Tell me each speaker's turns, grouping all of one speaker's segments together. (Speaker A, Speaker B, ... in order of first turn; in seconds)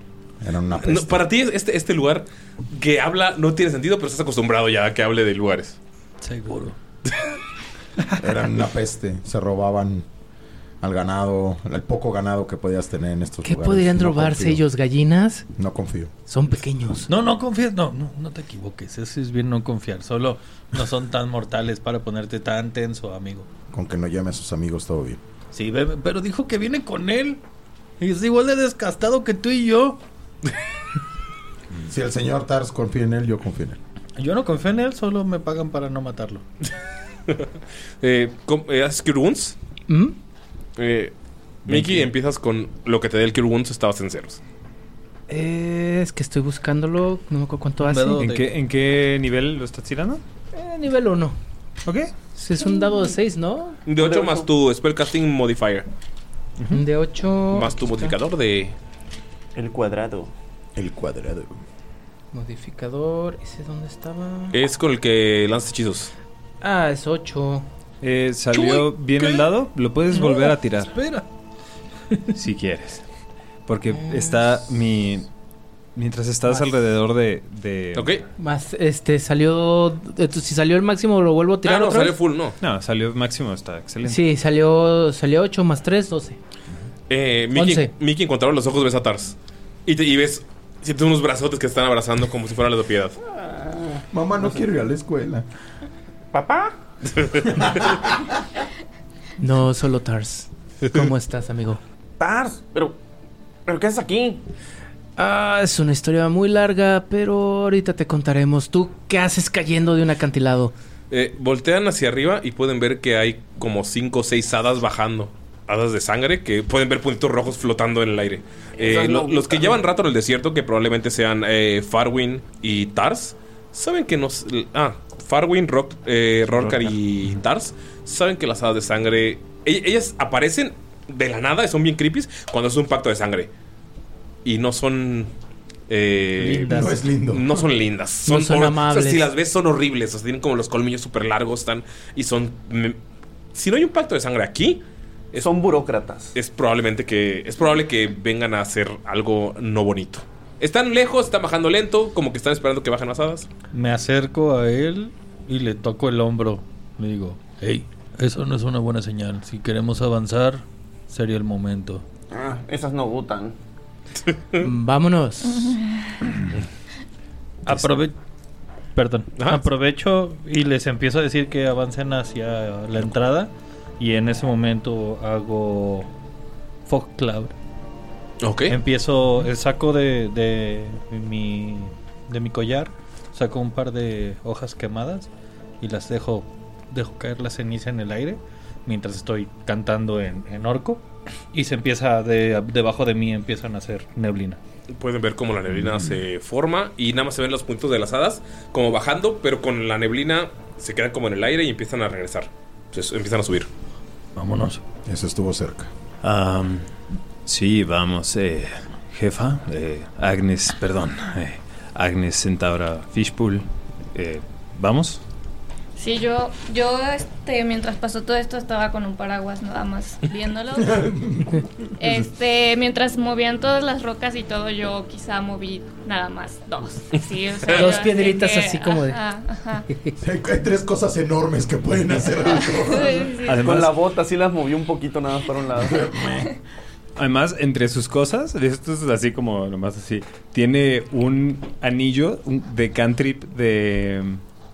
Speaker A: 0.4-1.2, 8.2-10.1, 10.8-14.6, 15.6-16.1, 23.7-25.2, 31.9-33.8, 60.8-61.5, 94.1-95.4, 97.5-98.1, 136.7-137.6, 205.1-205.9, 220.7-222.1, 230.2-233.3, 235.8-236.5
Speaker B: 0.8-5.8, 38.0-39.5, 40.8-41.1, 41.7-44.4, 53.9-55.9, 57.5-58.7, 64.5-66.1, 77.9-78.2, 81.6-82.6, 87.1-93.2, 97.2-97.6, 111.1-133.5, 134.4-135.3, 135.9-143.0, 143.5-145.5, 146.3-153.5, 164.3-164.6, 169.3-169.6, 178.4-178.8, 194.9-203.7, 227.7-228.0
Speaker C: 6.2-6.8, 17.1-23.5, 25.5-27.4, 28.0-30.0, 34.2-36.4, 47.8-48.5, 70.1-71.2, 136.4-136.9, 153.7-162.0, 167.6-168.2, 168.9-176.1, 176.8-177.5, 178.7-185.3, 185.8-194.6, 204.3-204.8
Speaker D: 13.4-15.4, 16.3-17.1, 39.9-40.1, 45.3-48.2, 50.5-51.4, 52.4-53.8, 56.7-58.1, 62.3-64.5, 66.6-67.7, 78.4-82.2, 84.0-86.4, 87.5-87.9, 99.4-101.8, 105.2-110.7, 138.2-139.3, 164.6-165.8, 227.7-229.2
Speaker E: 41.7-42.1, 48.2-50.2, 51.9-52.1, 56.6-56.8, 68.0-70.9, 72.3-73.0, 73.7-75.2, 75.9-78.2, 82.6-84.2, 126.6-126.9, 206.2-206.9, 207.4-215.2, 233.4-233.9, 237.2-244.4
Speaker F: 54.0-54.5, 59.5-60.3, 93.3-94.7, 96.3-96.7, 102.2-103.0, 103.7-104.4, 118.8-119.8, 145.3-146.3, 162.3-163.5, 233.6-236.0
Speaker G: 165.6-166.0, 215.9-221.1, 222.0-229.9, 232.4-233.8